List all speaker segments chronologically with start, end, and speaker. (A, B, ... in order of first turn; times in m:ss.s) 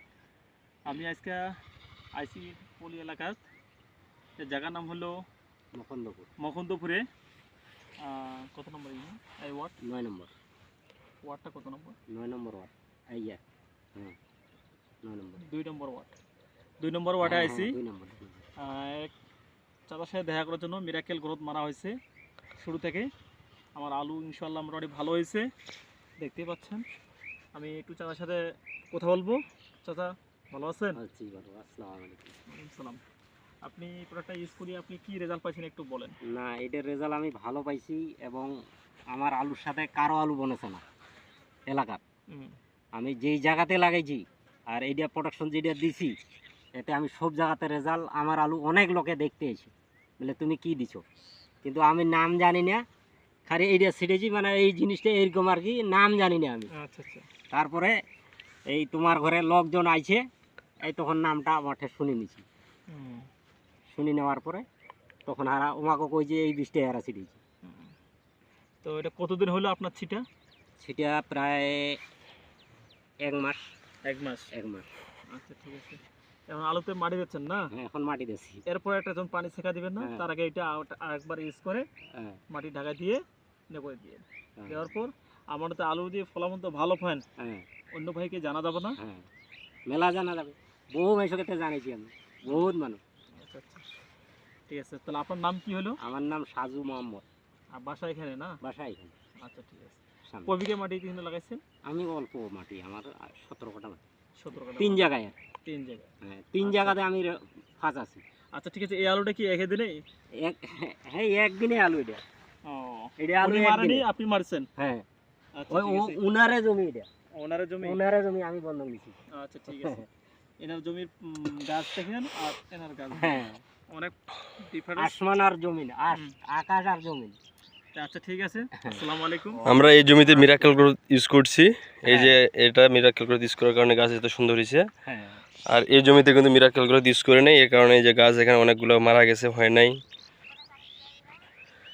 0:00.8-0:01.4 A
0:02.2-0:03.4 A
0:04.4-0:05.1 A
0:05.7-0:06.3 B
0:06.4-0:07.0 A
0:08.0-0:09.7 A
0:09.8-0:10.3 B
0:11.2-0:12.0 A
0:12.1-0:13.4 B
0:15.0-0:15.4 B
0:15.4-0:16.1 A
0:16.8-0:17.8 A
0:17.2-0:18.4 B
0:18.6-0:19.1 A
0:19.9-0:21.9 A
0:22.6-0:23.1 A
0:23.8-0:25.5 A
0:26.2-0:26.8 A
0:27.5-0:31.0 A
0:30.9-0:32.4 B
0:32.5-0:33.0 A
0:33.6-0:36.2 A
0:36.2-0:38.5 B
0:39.1-0:40.8 B
0:41.7-0:42.0 B
0:42.3-0:42.6 A
0:42.9-0:46.1 B
0:46.8-0:51.0 B
0:51.6-0:52.8 B
0:53.5-0:56.7 B
0:56.7-0:57.2 A
0:57.5-0:58.0 B
0:58.7-1:00.2 B
1:00.8-1:02.4 B
1:02.9-1:03.3 A
1:03.9-1:04.6 B
1:05.2-1:07.4 B
1:07.6-1:07.9 A
1:08.8-1:10.2 A
1:10.8-1:12.0 B
1:13.2-1:13.6 B
1:14.0-1:14.5 A
1:14.5-1:14.9 B
1:15.3-1:17.7 A
1:17.7-1:18.6 B
1:18.6-1:21.8 A
1:20.0-1:20.2 B
1:22.1-1:22.4 B
1:22.5-1:27.2 A
1:24.6-1:24.9 B
1:27.4-1:27.6 B
1:27.9-1:29.0 A
1:29.0-1:29.3 B
1:29.9-1:33.0 B
1:33.4-1:33.8 A
1:34.7-1:36.0 A
1:36.0-1:37.2 B
1:37.8-1:38.6 A
1:38.6-1:39.1 B
1:39.4-1:41.6 A
1:40.3-1:40.5 B
1:41.8-1:44.0 B
1:44.4-1:45.0 A
1:44.8-1:45.4 B
1:45.6-1:46.0 A
1:46.2-1:48.2 B
1:46.6-1:47.0 A
1:48.5-1:50.0 A
1:50.4-1:52.2 B
1:52.6-1:54.7 A
1:53.2-1:54.0 B
1:54.8-1:55.0 B
1:55.6-1:56.2 A
1:55.7-1:57.1 B
1:57.3-1:58.0 A
1:57.8-1:59.2 B
1:59.3-2:00.0 A
1:59.7-2:00.0 B
2:00.6-2:05.1 A
2:03.1-2:03.6 B
2:05.0-2:07.4 B
2:07.9-2:09.6 A
2:09.5-2:10.7 B
2:09.6-2:14.9 C
2:12.0-2:12.4 B
2:15.0-2:15.4 B
2:15.7-2:20.0 C